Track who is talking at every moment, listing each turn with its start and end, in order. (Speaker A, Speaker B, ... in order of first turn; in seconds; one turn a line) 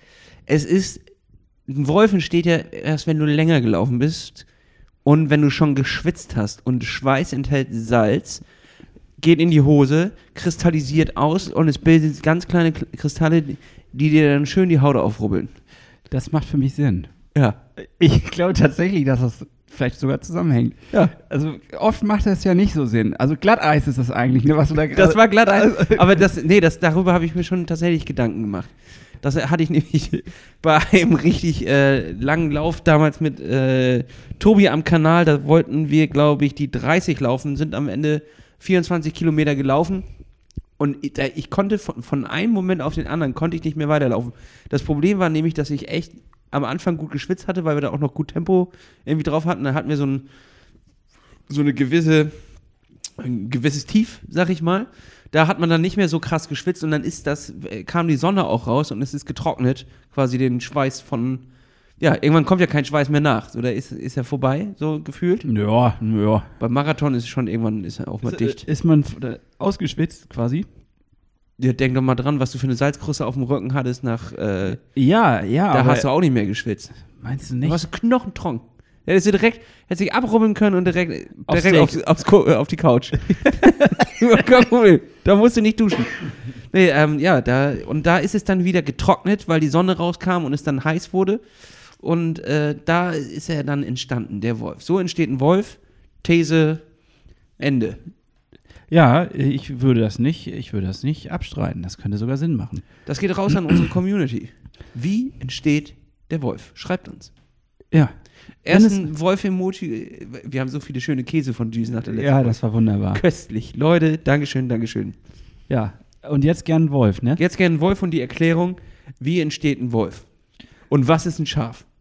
Speaker A: 0.5-1.1
Speaker A: 1.7-4.5
Speaker A: 5.0-8.4
Speaker A: 9.2-15.5
Speaker B: 16.1-17.1
Speaker B: 17.8-26.0
Speaker A: 24.9-40.0
Speaker A: 40.8-50.3
Speaker A: 51.5-52.3
Speaker A: 53.2-61.5
Speaker A: 62.0-65.5
Speaker B: 65.4-66.5
Speaker A: 66.6-68.6
Speaker B: 68.2-70.7
Speaker A: 71.6-74.8
Speaker B: 75.0-76.1
Speaker A: 75.7-76.9
Speaker B: 77.2-77.8
Speaker A: 77.6-91.4
Speaker B: 81.5-82.0
Speaker A: 92.0-96.8
Speaker A: 97.6-98.0
Speaker B: 98.9-102.8
Speaker A: 103.1-107.3
Speaker A: 108.6-112.6
Speaker B: 108.7-109.1
Speaker B: 112.1-113.2
Speaker A: 113.1-115.2
Speaker B: 115.7-117.4
Speaker A: 117.4-120.3
Speaker A: 120.9-121.9